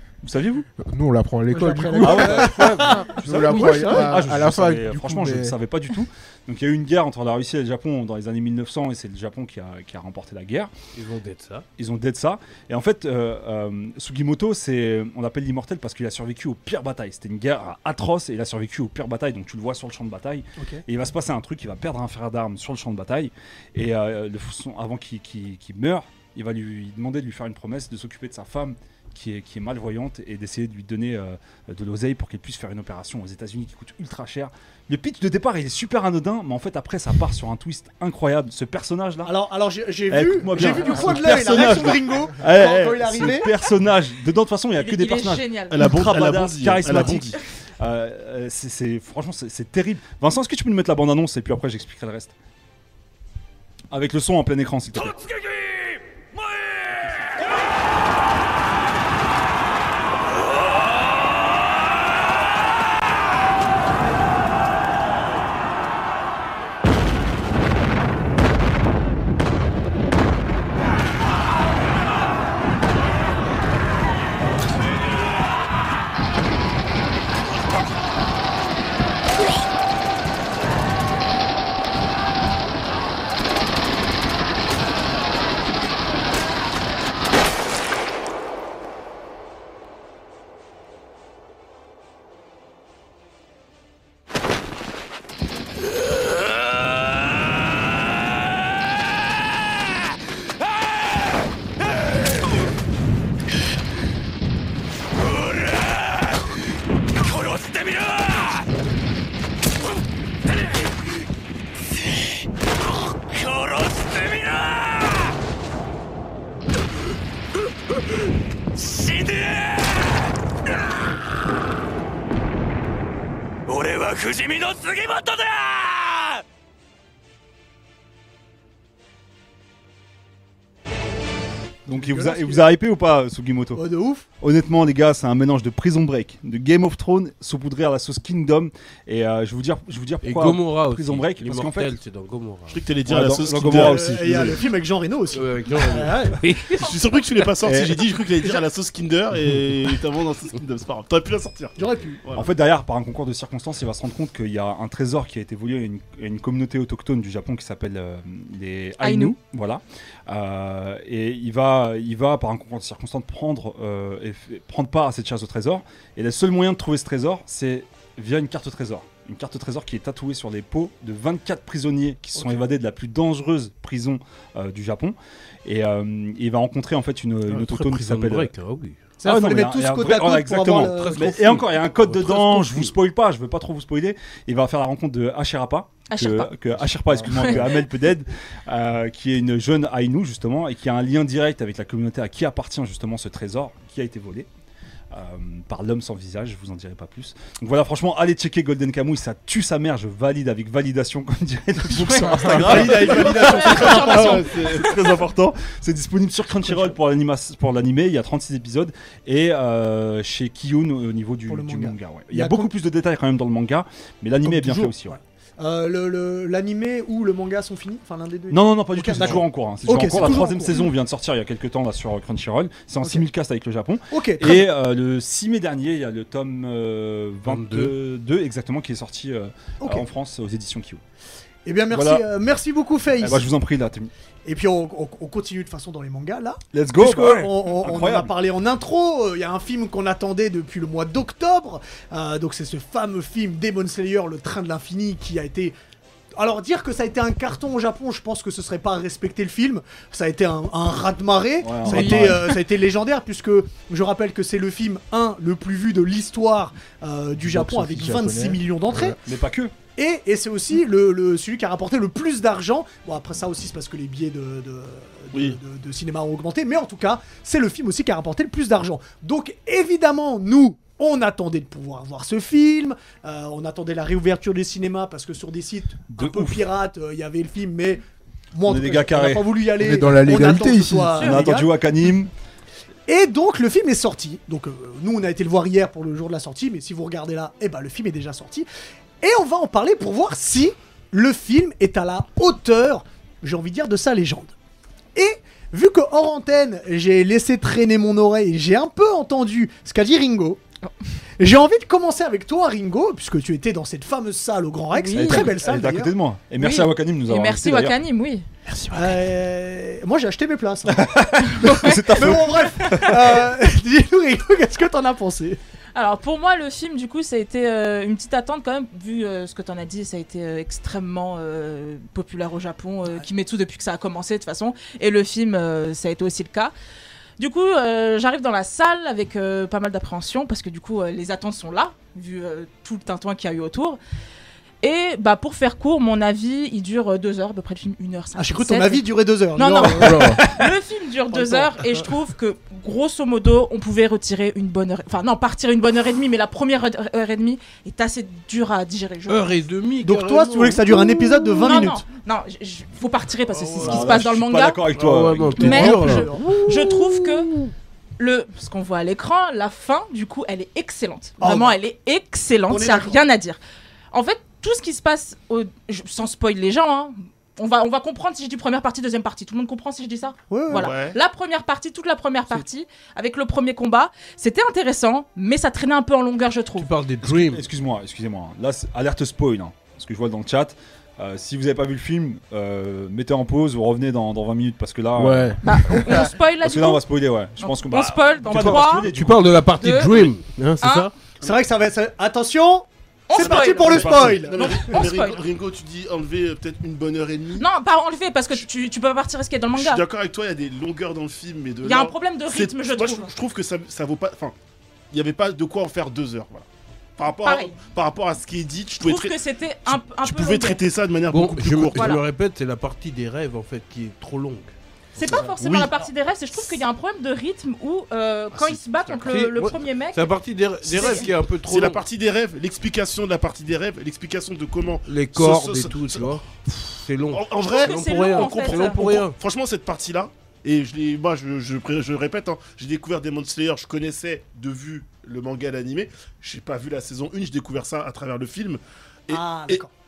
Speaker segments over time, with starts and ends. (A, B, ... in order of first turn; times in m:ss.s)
0:00.2-0:00.7 A
0:00.8-0:05.6 B
0:01.5-0:04.3 C
0:02.0-0:10.7 A
0:10.9-0:11.6 D
0:11.8-0:39.3 A
0:20.6-0:20.8 C
0:39.2-0:43.5 C
0:40.1-0:52.3 A
0:41.4-0:41.6 E
0:44.8-0:45.8 F
0:45.7-0:47.3 E
0:45.8-0:47.3 C
0:53.9-0:55.3 A
0:56.8-0:57.4 E
2:11.8-2:13.8 A
2:11.9-2:12.7 C
2:13.7-2:14.3 C
2:14.4-2:22.0 A
2:20.2-2:22.8 D
2:22.7-2:24.4 E
2:23.1-2:24.6 A
2:23.6-2:26.4 C
2:25.3-2:26.9 D
2:26.7-2:32.5 E
2:27.6-2:28.0 A
2:31.8-2:32.2 C
2:32.3-2:58.5 A
2:39.0-2:39.3 F
2:57.5-2:59.0 D
2:59.2-3:01.4 C
2:59.2-3:14.5 A
3:00.8-3:02.9 D
3:06.1-3:06.5 F
3:07.0-3:07.5 B
3:07.2-3:07.7 F
3:15.1-3:35.2 A
3:21.9-3:24.5 C
3:22.0-3:22.8 B
3:22.6-3:24.9 E
3:23.0-3:24.8 F
3:26.6-3:26.9 C
3:31.5-3:32.7 C
3:34.4-3:40.9 C
3:38.5-3:51.0 A
3:44.1-3:44.7 C
3:47.4-3:47.9 D
3:51.6-3:53.5 C
3:51.9-3:52.2 A
3:53.2-3:54.1 A
3:54.4-4:05.8 C
3:56.7-3:58.3 A
4:06.4-4:19.2 C
4:11.6-4:12.6 A
4:11.9-4:12.2 F
4:17.4-4:19.2 B
4:19.2-4:19.7 A
4:20.0-4:38.0 C
4:36.1-4:36.7 A
4:38.5-4:41.7 C
4:38.6-4:39.5 A
4:39.7-4:41.2 B
4:41.1-4:41.4 F
4:41.2-4:42.3 A
4:43.1-4:48.7 C
4:49.2-4:54.5 C
4:55.1-5:00.6 C
5:01.4-5:06.1 C
5:04.9-5:05.5 F
5:05.1-5:08.0 A
5:06.6-5:08.4 F
5:08.9-5:15.6 C
5:10.9-5:13.4 A
5:11.6-5:11.9 F
5:15.9-5:26.7 F
5:27.4-5:34.0 F
5:34.8-5:49.5 F
5:38.4-5:40.6 C
5:39.9-5:40.4 B
5:41.3-5:42.1 C
5:49.3-5:51.4 D
5:50.0-5:52.0 C
5:51.6-5:54.8 F
5:53.6-5:54.1 C
5:53.8-5:56.0 A
5:54.9-5:56.7 D
5:55.6-5:57.1 C
5:55.6-5:57.5 F
5:58.2-6:03.6 F
6:01.4-6:01.8 C
6:02.7-6:03.2 C
6:04.1-6:16.9 F
6:10.5-6:10.9 C
6:10.7-6:11.2 E
6:16.8-6:17.6 D
6:17.2-6:25.6 A
6:25.2-6:26.3 B
6:25.6-6:27.0 F
6:26.6-6:29.6 A
6:27.6-6:29.1 F
6:28.5-6:31.1 D
6:29.8-6:31.1 F
6:31.4-6:35.0 C
6:33.3-6:35.4 F
6:33.4-6:37.7 E
6:33.6-6:34.4 A
6:37.6-6:40.0 F
6:39.7-6:44.5 E
6:41.8-6:43.3 F
6:45.1-6:46.6 E
6:47.2-6:52.2 E
6:47.4-6:47.8 F
6:49.0-6:50.8 F
6:51.3-6:54.7 D
6:51.9-6:52.2 F
6:55.2-7:00.3 F
6:55.2-6:55.9 E
6:58.5-6:59.5 E
6:59.3-7:02.0 D
7:00.9-7:01.3 F
7:00.9-7:06.4 E
7:05.1-7:09.3 D
7:07.3-7:19.8 E
7:07.6-7:09.0 F
7:19.3-7:19.9 C